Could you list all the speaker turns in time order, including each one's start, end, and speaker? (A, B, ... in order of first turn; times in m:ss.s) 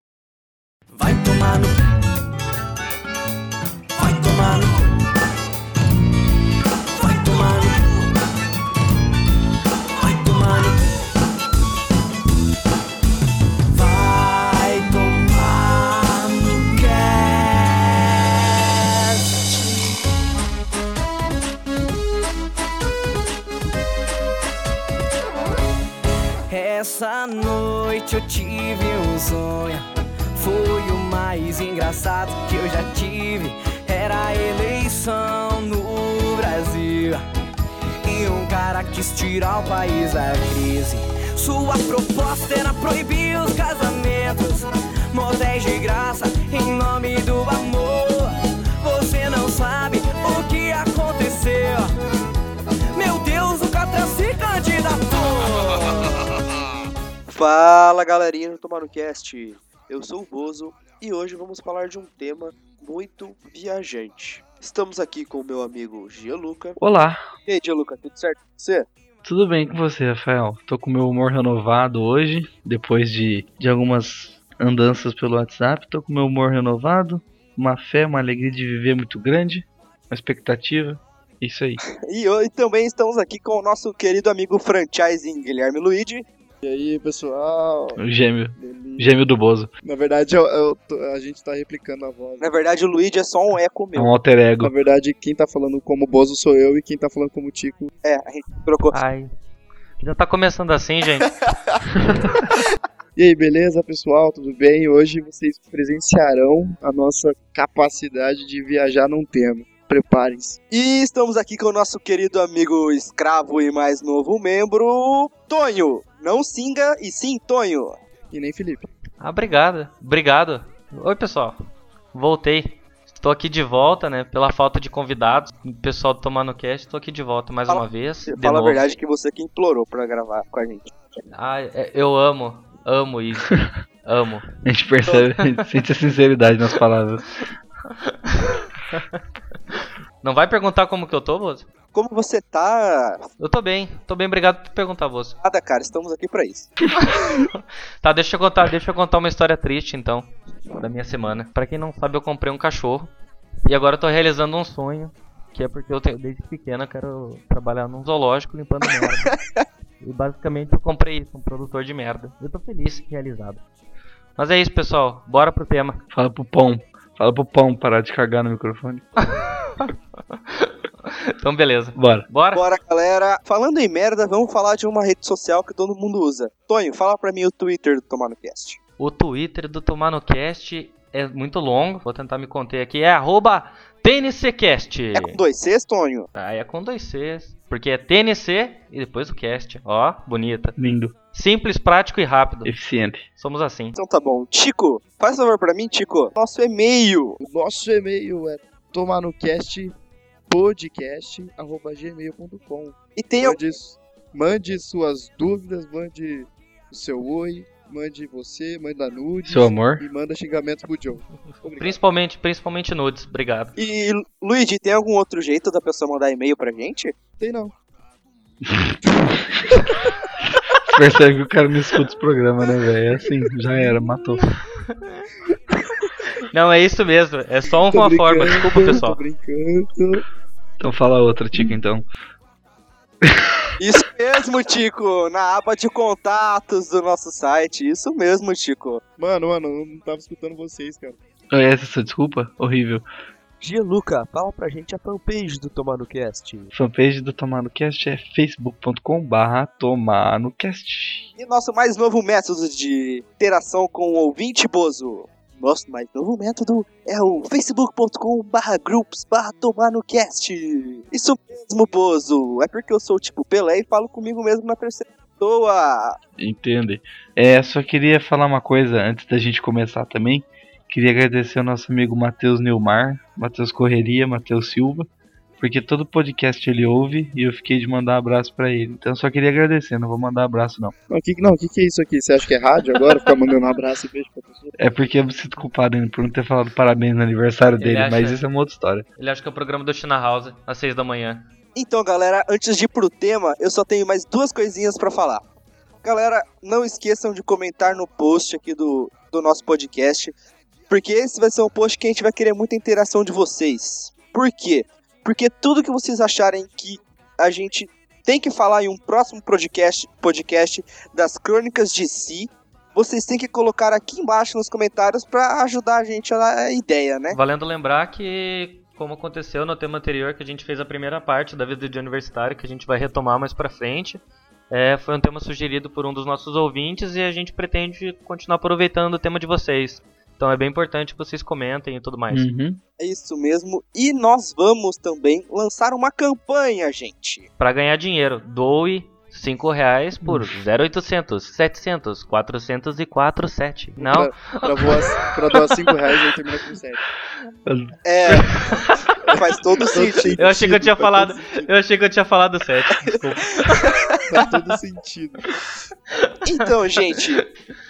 0:00.9-0:01.8 A
0:04.0-0:04.9 A
0:06.9-0:08.0 A
0:10.0-0:10.8 A
0:13.7-0:19.5 A
0:26.5-0:37.2 A
0:38.0-0:51.9 A
0:52.9-0:56.2 A
0:57.3-1:06.8 B
1:06.8-1:07.2 C
1:07.4-1:08.9 B
1:09.2-1:21.8 C
1:21.9-1:26.2 B
1:26.6-1:28.0 D
1:28.0-1:29.7 C
1:28.6-1:29.1 D
1:29.8-1:32.5 D
1:32.4-1:34.1 B
1:33.9-1:34.7 C
1:34.6-1:37.9 D
1:38.0-1:38.9 B
1:38.9-1:39.3 E
1:40.0-1:41.3 E
1:43.2-1:50.6 D
1:50.7-1:58.0 B
1:58.3-1:58.9 D
1:59.2-2:01.6 E
2:02.1-2:08.8 E
2:07.7-2:10.9 B
2:11.3-2:14.4 E
2:14.6-2:17.2 C
2:18.0-2:19.2 E
2:20.2-2:21.7 E
2:21.9-2:23.2 B
2:23.4-2:25.4 E
2:25.4-2:26.7 B
2:27.0-2:33.1 E
2:33.7-2:39.4 E
2:39.3-2:39.6 B
2:40.0-2:43.6 E
2:44.4-2:46.0 E
2:46.1-2:49.0 C
2:49.2-2:52.6 E
2:52.0-2:52.3 C
2:52.5-2:58.8 B
2:59.0-3:05.4 E
3:05.1-3:06.3 B
3:06.3-3:10.8 E
3:10.8-3:11.1 C
3:11.3-3:12.7 E
3:12.6-3:13.2 C
3:13.4-3:14.0 E
3:14.0-3:17.4 B
3:17.4-3:19.9 D
3:20.5-3:32.0 D
3:23.2-3:23.6 B
3:29.4-3:30.0 C
3:31.8-3:33.7 E
3:33.8-3:37.2 B
3:37.4-3:37.7 D
3:38.7-3:39.5 C
3:40.8-3:44.4 C
3:44.9-3:45.2 E
3:46.5-3:49.2 E
3:47.9-3:50.2 D
3:50.8-3:52.0 C
3:53.2-3:53.6 C
3:53.8-3:59.0 B
3:59.2-4:01.2 D
4:01.5-4:03.0 C
4:03.6-4:06.7 B
4:06.7-4:11.3 C
4:11.4-4:26.2 B
4:26.4-4:35.1 C
4:35.6-4:40.9 C
4:41.1-4:44.8 D
4:44.8-4:49.0 C
4:47.8-4:48.4 E
4:49.2-4:51.4 E
4:51.7-4:55.4 B
4:56.0-5:00.3 B
5:00.9-5:17.4 B
5:17.3-5:32.5 E
5:32.3-5:32.8 C
5:33.0-5:37.5 B
5:37.6-5:44.9 E
5:40.2-5:40.5 C
5:44.0-5:47.0 D
5:47.6-5:47.9 C
5:48.0-5:48.7 B
5:48.3-5:48.9 E
5:49.3-5:50.4 B
5:49.9-5:51.7 D
5:50.4-5:54.2 E
5:53.6-5:54.1 B
5:54.3-5:55.5 D
5:56.1-5:56.6 E
5:56.4-5:57.5 B